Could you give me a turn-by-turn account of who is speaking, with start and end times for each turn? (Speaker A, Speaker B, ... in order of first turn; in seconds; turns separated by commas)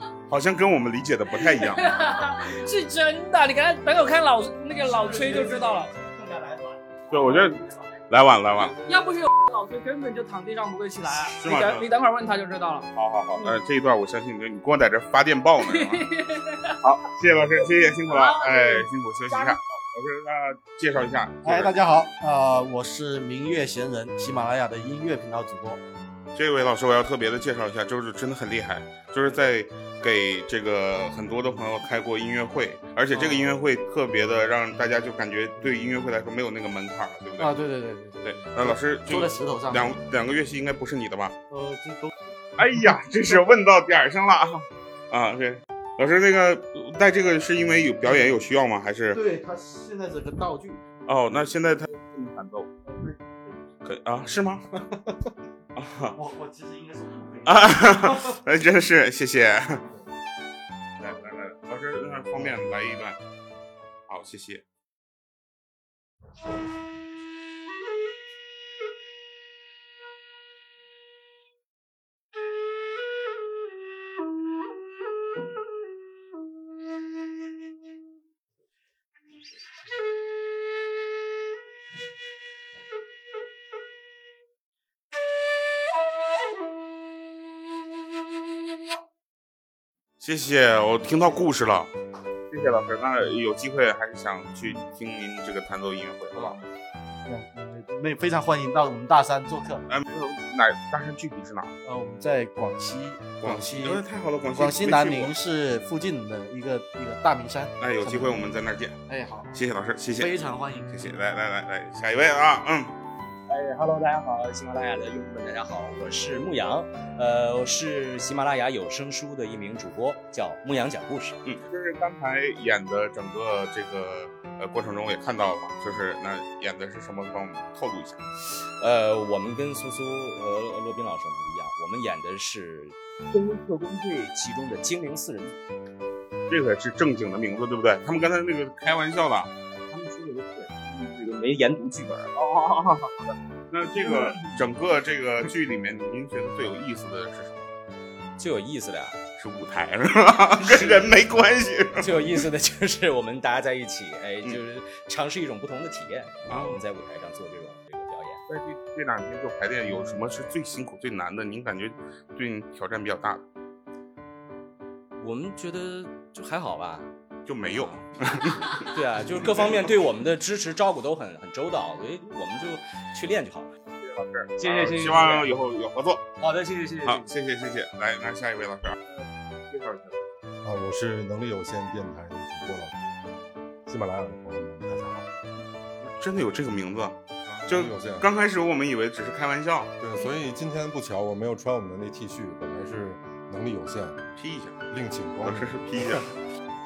Speaker A: 0.3-1.9, Speaker B: 1.5-5.9, Speaker C: 4.8-7.5, Speaker A: 7.1-8.8, Speaker B: 8.9-13.6, Speaker A: 11.1-11.9, Speaker A: 12.9-16.0, Speaker B: 15.7-16.5, Speaker A: 16.8-21.8, Speaker B: 18.1-19.5, Speaker C: 21.4-25.8, Speaker A: 26.3-37.6, Speaker C: 33.1-33.6, Speaker C: 37.4-40.0, Speaker A: 38.2-41.4, Speaker C: 41.5-43.4, Speaker A: 42.6-49.2, Speaker C: 49.1-50.8, Speaker A: 51.1-52.7, Speaker C: 52.9-53.5, Speaker A: 53.8-54.6, Speaker A: 55.8-56.2, Speaker C: 56.1-58.1, Speaker A: 57.5-59.8, Speaker A: 61.0-63.2, Speaker A: 64.1-64.6, Speaker A: 90.2-91.9, Speaker A: 92.5-96.6, Speaker C: 96.3-96.6, Speaker C: 97.2-99.8, Speaker A: 99.9-101.7, Speaker C: 101.8-108.5, Speaker A: 103.4-105.4, Speaker A: 107.8-109.0, Speaker C: 109.1-109.6, Speaker A: 109.5-110.4, Speaker C: 110.1-111.1, Speaker A: 110.9-113.0, Speaker D: 113.5-121.4, Speaker A: 121.4-128.2, Speaker D: 128.4-135.6, Speaker A: 136.5-139.5, Speaker D: 139.9-142.3, Speaker A: 142.3-147.6, Speaker D: 148.4-149.2, Speaker A: 149.4-152.4, Speaker D: 150.6-151.1, Speaker D: 152.0-158.4, Speaker A: 156.5-156.8, Speaker A: 158.5-163.4, Speaker D: 165.2-167.1, Speaker A: 167.4-168.6, Speaker D: 167.7-167.9, Speaker D: 168.8-173.7, Speaker A: 169.4-169.7, Speaker A: 174.0-176.2, Speaker D: 174.6-175.5, Speaker D: 176.4-177.3, Speaker A: 177.0-180.2, Speaker E: 180.6-183.0, Speaker E: 183.9-185.3, Speaker A: 186.0-189.9, Speaker E: 187.4-188.4, Speaker E: 190.0-194.2, Speaker A: 194.4-194.8, Speaker E: 194.9-196.2, Speaker A: 195.4-196.3